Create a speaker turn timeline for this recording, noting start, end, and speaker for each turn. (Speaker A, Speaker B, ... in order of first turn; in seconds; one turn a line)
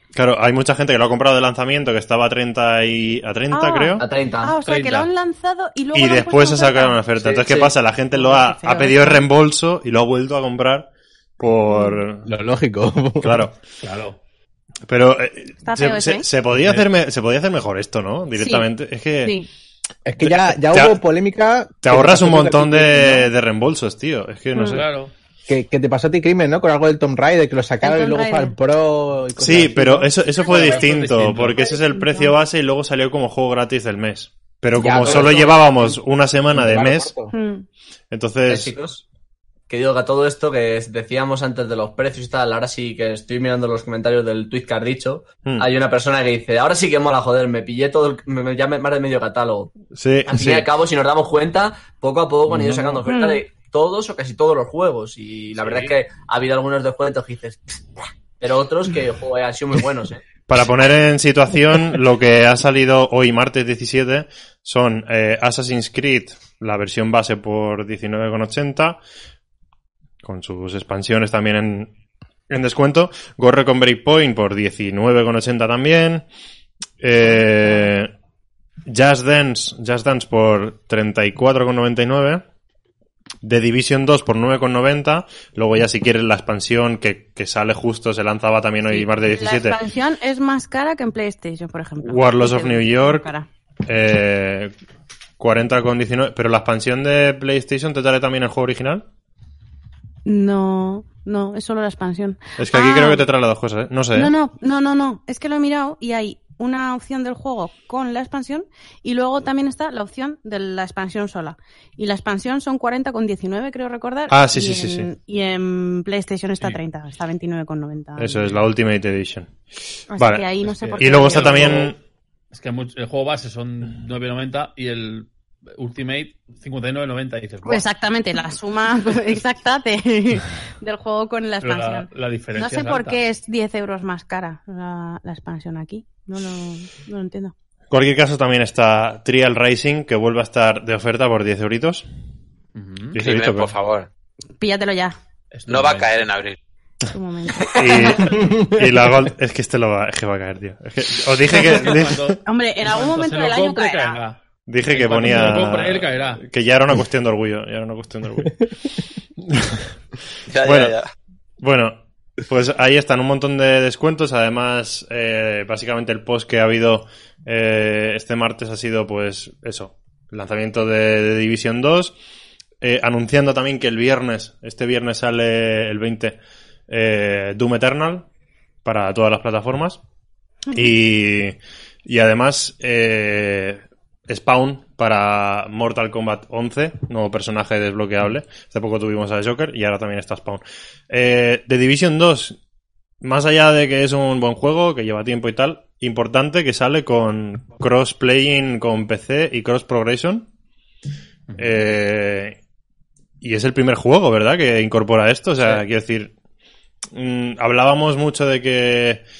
Speaker A: 0.1-4.0
Speaker B: 3.5-7.0
Speaker C: 4.0-4.6
Speaker D: 4.6-5.1
Speaker A: 5.9-12.3
Speaker C: 7.2-7.7
Speaker B: 8.1-9.2
Speaker B: 11.7-12.0
Speaker E: 12.2-13.5
Speaker A: 13.2-13.6
Speaker D: 13.8-14.2
Speaker A: 14.9-19.4
Speaker B: 15.6-16.3
Speaker B: 18.4-18.7
Speaker B: 19.2-19.5
Speaker E: 20.0-23.3
Speaker A: 20.2-21.0
Speaker A: 21.8-24.9
Speaker B: 24.5-24.8
Speaker D: 24.7-25.1
Speaker E: 25.5-30.1
Speaker B: 27.8-28.5
Speaker A: 29.4-37.1
Speaker D: 30.4-31.7
Speaker B: 30.4-30.8
Speaker B: 31.6-32.3
Speaker E: 34.7-36.0
Speaker E: 36.5-37.3
Speaker B: 37.3-37.6
Speaker A: 38.1-38.7
Speaker C: 38.5-39.0
Speaker C: 39.7-49.7
Speaker A: 49.9-50.7
Speaker C: 50.3-57.6
Speaker B: 53.1-53.4
Speaker D: 55.6-55.9
Speaker C: 58.4-60.2
Speaker A: 60.5-69.0
Speaker A: 70.2-71.9
Speaker A: 72.5-76.2
Speaker A: 77.0-78.1
Speaker A: 78.8-82.4
Speaker A: 83.4-89.8
Speaker B: 88.9-93.5
Speaker A: 92.0-93.2
Speaker A: 93.8-94.7
Speaker A: 95.4-99.0
Speaker B: 100.2-103.2
Speaker A: 102.6-104.3
Speaker B: 104.1-118.6
Speaker A: 114.3-115.1
Speaker A: 118.2-119.5
Speaker B: 120.1-121.9
Speaker A: 120.2-120.5
Speaker D: 120.7-122.0
Speaker A: 121.0-122.0
Speaker D: 122.5-127.8
Speaker B: 127.6-137.5
Speaker D: 131.6-133.2
Speaker A: 137.9-142.0
Speaker D: 142.7-143.2
Speaker A: 143.1-143.7
Speaker F: 143.2-144.1
Speaker B: 144.6-145.2
Speaker D: 145.5-146.2
Speaker F: 145.7-146.6
Speaker B: 147.0-148.4
Speaker A: 147.7-152.3
Speaker D: 151.5-154.4
Speaker B: 152.4-154.2
Speaker A: 154.7-158.7
Speaker D: 154.9-156.4
Speaker A: 159.4-159.8
Speaker F: 160.5-161.1
Speaker A: 160.6-160.9
Speaker A: 161.6-172.1
Speaker A: 172.8-176.4
Speaker A: 176.9-178.2
Speaker A: 178.8-180.0
Speaker A: 180.7-192.6
Speaker A: 193.2-200.5
Speaker D: 201.5-201.8
Speaker A: 201.6-202.6
Speaker A: 203.4-206.3
Speaker A: 207.1-209.2